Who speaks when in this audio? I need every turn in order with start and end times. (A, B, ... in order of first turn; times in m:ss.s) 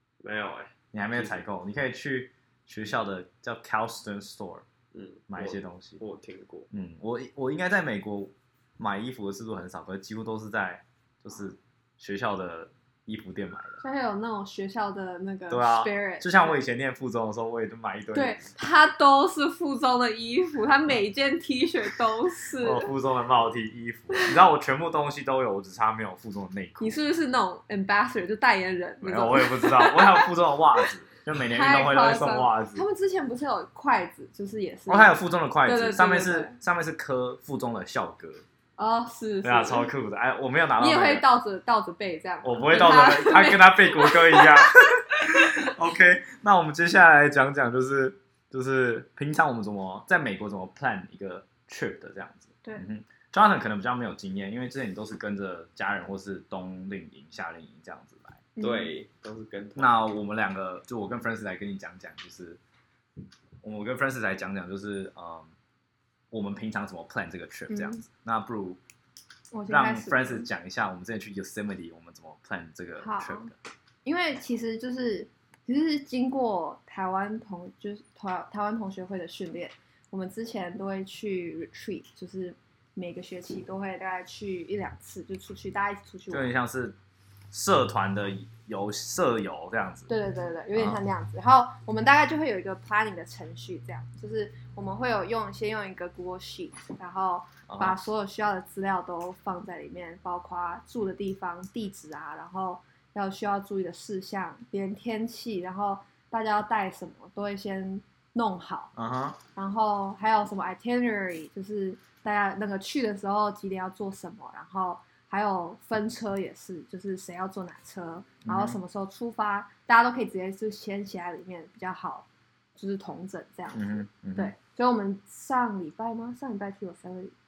0:00.2-0:01.4 A
0:00.9-0:04.6 B
0:04.9-0:06.7 A
0:05.3-0:06.0 B
0:06.7-0:13.8 B
0:13.8-0:16.6 C
0:15.5-0:18.5 B
0:18.1-0:22.9 C
0:22.6-0:27.0 B
0:26.8-0:30.9 C
0:29.0-0:32.8 B
0:31.5-0:36.6 C
0:34.9-0:38.4 B
0:38.8-0:39.9 C
0:39.4-0:41.2 B
0:40.8-0:45.5 C
0:42.4-0:58.4 B
0:58.6-0:58.9 C
0:58.6-1:00.0 A
0:59.8-1:02.6 B
1:03.6-1:05.5 B
1:06.3-1:08.8 B
1:07.7-1:08.0 C
1:09.5-1:10.5 C
1:09.7-1:13.5 B
1:13.0-1:13.5 C
1:14.0-1:26.6 C
1:26.3-1:27.0 B
1:27.5-1:30.1 B
1:30.1-1:48.9 C
1:30.7-1:31.0 B
1:37.7-1:38.0 B
1:48.9-1:49.4 B
1:49.5-2:07.3 C
1:58.4-1:58.8 B
2:03.7-2:04.5 B